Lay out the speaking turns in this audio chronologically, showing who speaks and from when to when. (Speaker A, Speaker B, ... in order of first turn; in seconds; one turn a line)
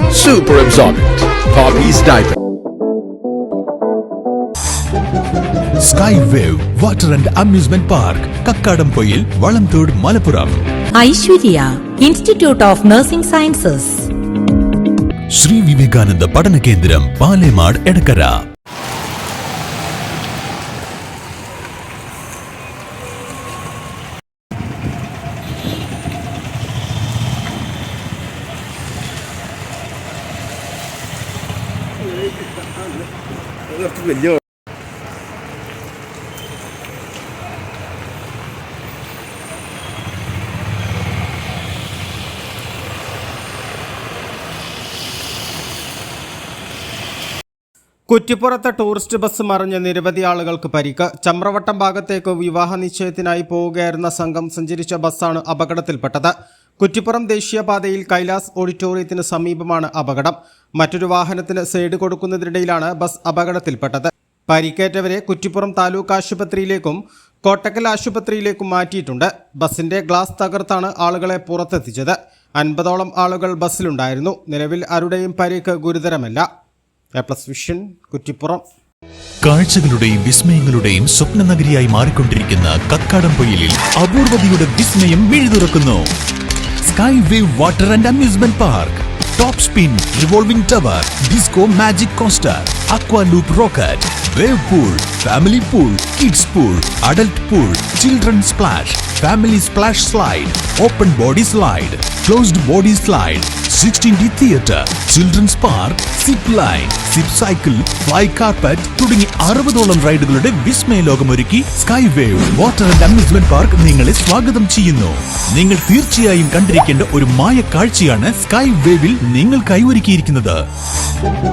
Speaker A: 0.1-2.4
Speaker B: 5.8-10.6
Speaker C: 10.9-14.1
Speaker B: 15.3-18.4
Speaker D: 48.1-76.5
Speaker D: 77.2-78.6
Speaker B: 79.4-86.1
Speaker B: 86.8-120.6